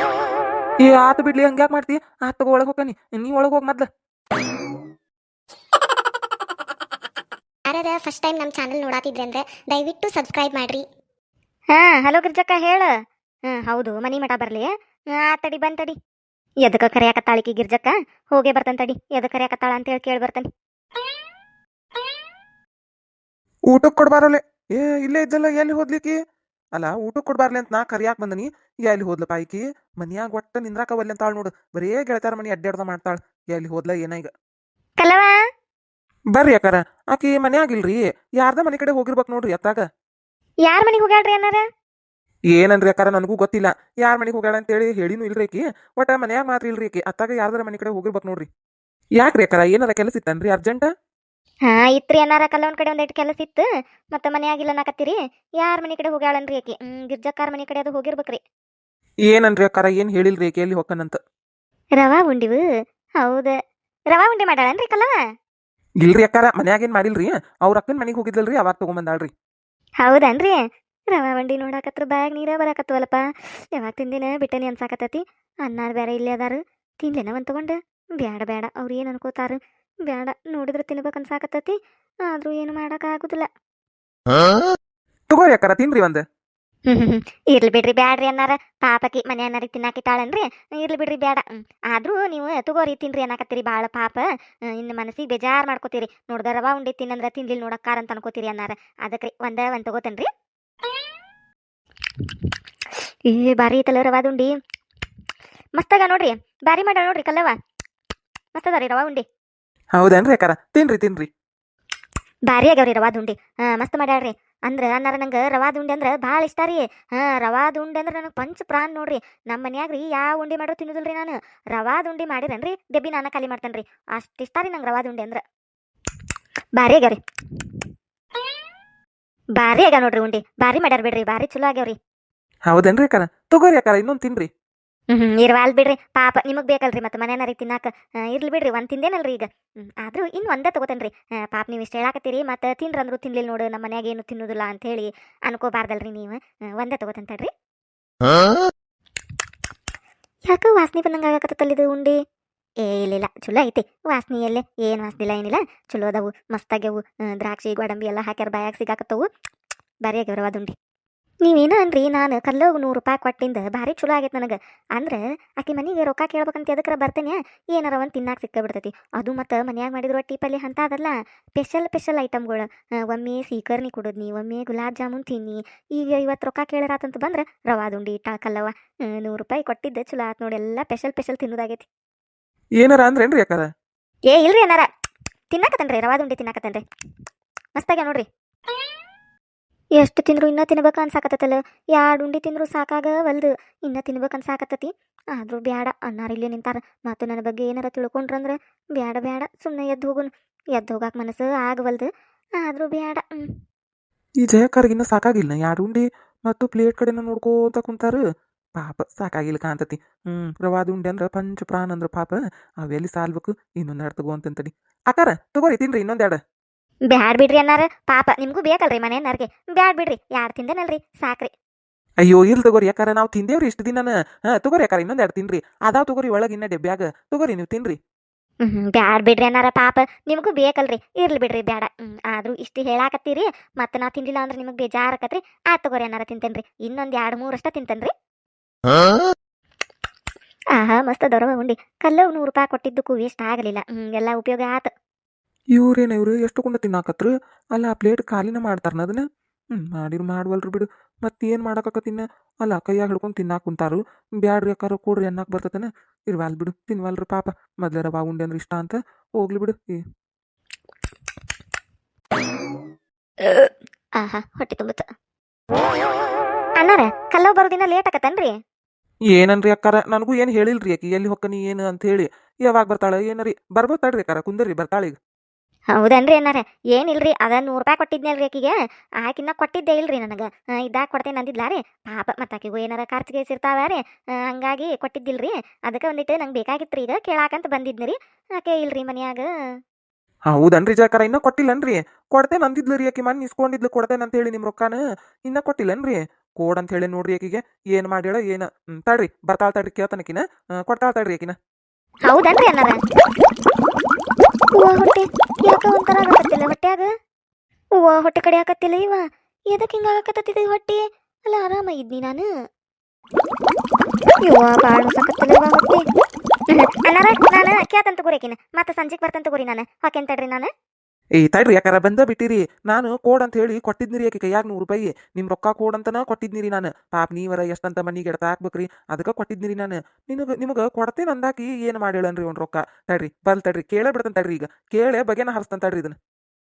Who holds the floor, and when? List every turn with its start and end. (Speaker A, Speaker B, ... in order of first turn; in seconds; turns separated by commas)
Speaker A: 0.8-3.9, Speaker B: 7.7-10.8, Speaker C: 11.7-12.9, Speaker C: 13.5-15.9, Speaker C: 16.6-20.5, Speaker A: 23.7-26.1, Speaker A: 26.8-34.3, Speaker C: 35.0-35.3, Speaker A: 36.3-39.8, Speaker C: 40.6-41.6, Speaker A: 42.5-48.5, Speaker A: 49.2-50.9, Speaker C: 51.6-58.4, Speaker A: 59.3-61.2, Speaker C: 62.0-62.6, Speaker C: 63.2-63.5, Speaker C: 64.1-65.2, Speaker A: 66.0-69.3, Speaker C: 70.0-70.6, Speaker C: 71.1-83.5, Speaker A: 85.3-86.2, Speaker C: 86.9-100.3, Speaker C: 103.2-104.5, Speaker C: 105.8-107.6, Speaker C: 108.5-109.2, Speaker A: 109.9-111.3, Speaker C: 112.5-125.4, Speaker C: 126.8-127.2, Speaker C: 129.6-131.9, Speaker A: 132.7-134.5, Speaker C: 135.1-147.5, Speaker C: 150.4-152.2, Speaker C: 152.8-159.2, Speaker C: 160.0-160.7, Speaker C: 161.4-181.8, Speaker A: 182.8-183.7, Speaker C: 184.3-184.9, Speaker C: 185.5-186.8, Speaker C: 187.8-188.2, Speaker C: 190.0-203.5, Speaker A: 204.4-208.2, Speaker A: 208.8-216.4, Speaker C: 217.1-221.5, Speaker A: 222.2-228.0, Speaker C: 228.6-238.1, Speaker C: 240.7-244.9, Speaker A: 245.8-260.0, Speaker C: 263.4-265.1, Speaker C: 266.8-268.5, Speaker A: 269.3-275.1, Speaker C: 275.9-289.5, Speaker A: 290.5-301.5, Speaker C: 302.3-303.0, Speaker C: 304.8-307.1, Speaker C: 308.0-312.5, Speaker C: 314.4-316.0, Speaker C: 316.7-320.7, Speaker A: 321.4-336.1